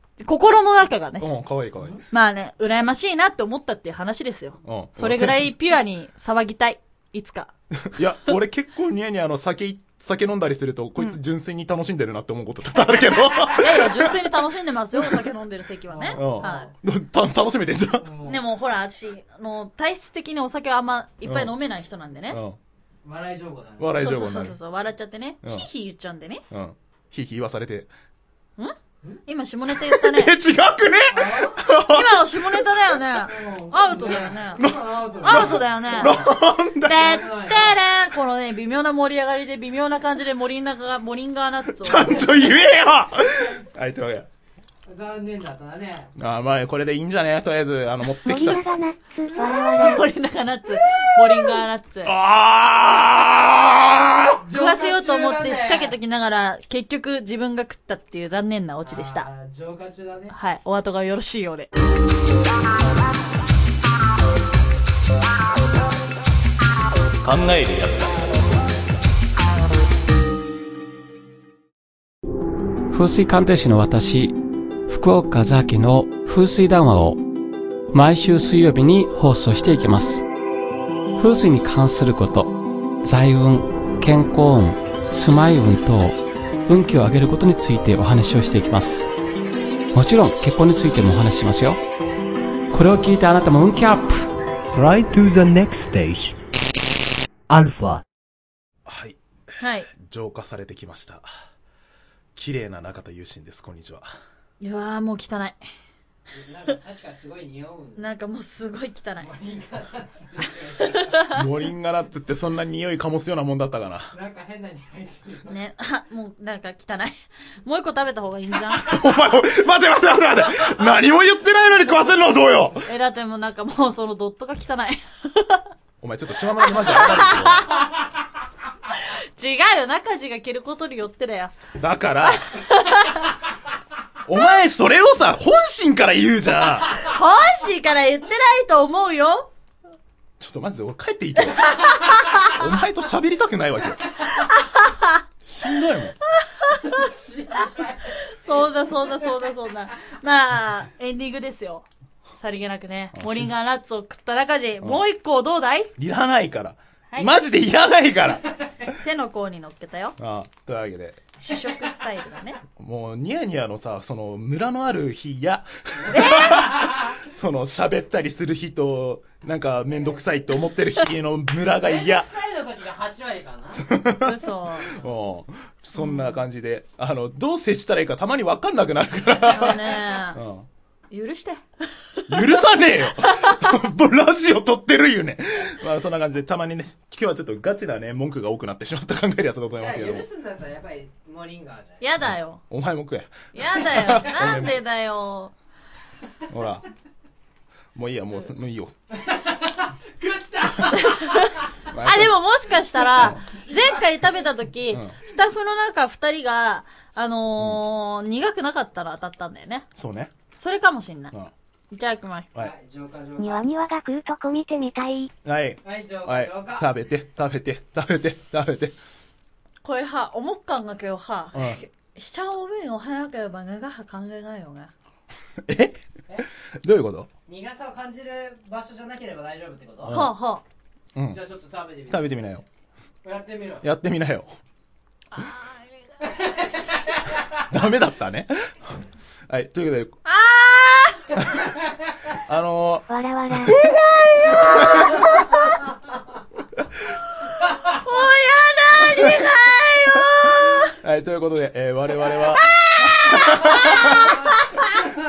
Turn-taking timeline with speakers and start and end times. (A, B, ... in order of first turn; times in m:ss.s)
0:00.2-0:01.2 A
0:01.2-0:02.0 B
0:01.8-0:02.0 C
0:02.1-0:08.0 A
0:04.6-0:05.5 B
0:07.8-0:14.3 B
0:13.6-0:16.7 A
0:15.9-0:16.7 C
0:16.1-0:18.1 B
0:18.0-0:18.4 C
0:18.2-0:22.4 A
0:21.2-0:21.5 B
0:22.3-0:22.6 B
0:23.0-0:24.0 C
0:23.8-0:24.6 B
0:23.9-0:26.4 A
0:26.5-0:27.9 B
0:29.2-0:30.3 A
0:29.7-0:32.6 B
0:31.1-0:31.6 C
0:31.9-0:34.7 A
0:33.2-0:36.3 C
0:34.6-0:37.2 B
0:35.2-0:36.2 A
0:36.8-0:42.2 A
0:36.9-0:37.8 C
0:41.7-0:44.3 B
0:44.9-0:46.1 C
0:46.2-0:48.8 B
0:48.2-0:50.1 D
0:49.8-0:52.1 A
0:52.0-0:54.4 B
0:54.4-0:55.9 C
0:54.5-0:59.3 A
0:58.8-1:00.3 C
1:00.3-1:01.7 A
1:07.2-1:08.3 B
1:12.9-1:17.2 E
1:17.9-1:20.2 E
1:21.2-1:29.1 E
1:29.9-1:31.8 E
1:32.7-1:34.3 E
1:34.7-1:36.4 F
1:37.5-1:38.0 F
1:38.8-1:39.2 B
1:39.6-1:39.9 A
1:39.9-1:41.3 B
1:42.4-1:44.1 B
1:44.6-1:45.6 A
1:46.3-1:48.0 C
1:48.0-1:49.3 A
1:49.2-1:51.3 C
1:51.3-1:54.1 B
1:54.1-1:55.6 C
1:55.5-1:57.1 A
1:57.6-1:59.0 A
1:58.8-2:02.8 B
2:02.8-2:05.6 A
2:06.0-2:07.8 B
2:06.6-2:08.0 A
2:08.9-2:11.5 A
2:11.8-2:12.4 B
2:12.2-2:13.3 A
2:14.2-2:17.0 B
2:16.9-2:19.5 A
2:20.4-2:21.8 B
2:21.6-2:22.5 A
2:22.4-2:24.1 B
2:24.2-2:25.2 A
2:25.4-2:26.2 B
2:26.4-2:27.1 A
2:26.7-2:29.5 C
2:27.6-2:35.9 A
2:33.1-2:33.5 B
2:36.0-2:38.5 B
2:38.9-2:40.1 A
2:40.2-2:41.3 B
2:41.4-2:42.6 A
2:42.8-2:52.3 B
2:46.1-2:47.0 C
2:46.1-2:46.7 A
2:51.8-2:53.8 C
2:53.7-3:00.6 B
2:54.2-2:54.9 A
2:56.0-2:56.3 A
2:59.4-3:00.4 A
3:01.1-3:03.7 A
3:02.3-3:10.2 B
3:09.8-3:12.0 C
3:12.0-3:12.6 A
3:12.7-3:14.8 B
3:13.5-3:15.5 A
3:16.5-3:16.8 B
3:17.9-3:18.9 B
3:19.1-3:21.6 C
3:20.9-3:29.8 A
3:21.9-3:22.3 B
3:23.0-3:24.4 C
3:24.9-3:25.1 B
3:30.0-3:30.3 B
3:30.6-3:31.3 A
3:31.9-3:32.5 A
3:32.5-3:33.7 C
3:33.4-3:35.3 D
3:35.4-3:39.0 B
3:35.8-3:36.9 C
3:39.8-3:44.9 A
3:41.5-3:41.8 B
3:45.6-3:46.0 B
3:46.8-3:47.3 B
3:47.5-3:50.2 C
3:50.0-3:50.3 B
3:50.1-3:50.6 A
3:51.3-3:52.3 C
3:52.1-3:52.6 B
3:53.2-3:53.8 C
3:53.8-3:54.5 B
3:55.4-3:56.3 A
3:56.2-3:57.5 C
3:57.7-4:00.2 B
4:00.2-4:01.3 A
4:01.3-4:01.7 B
4:02.4-4:03.1 B
4:03.1-4:03.8 D
4:03.6-4:05.8 A
4:07.9-4:10.9 A
4:09.1-4:09.4 B
4:10.9-4:12.6 B
4:12.6-4:14.6 A
4:13.2-4:14.4 B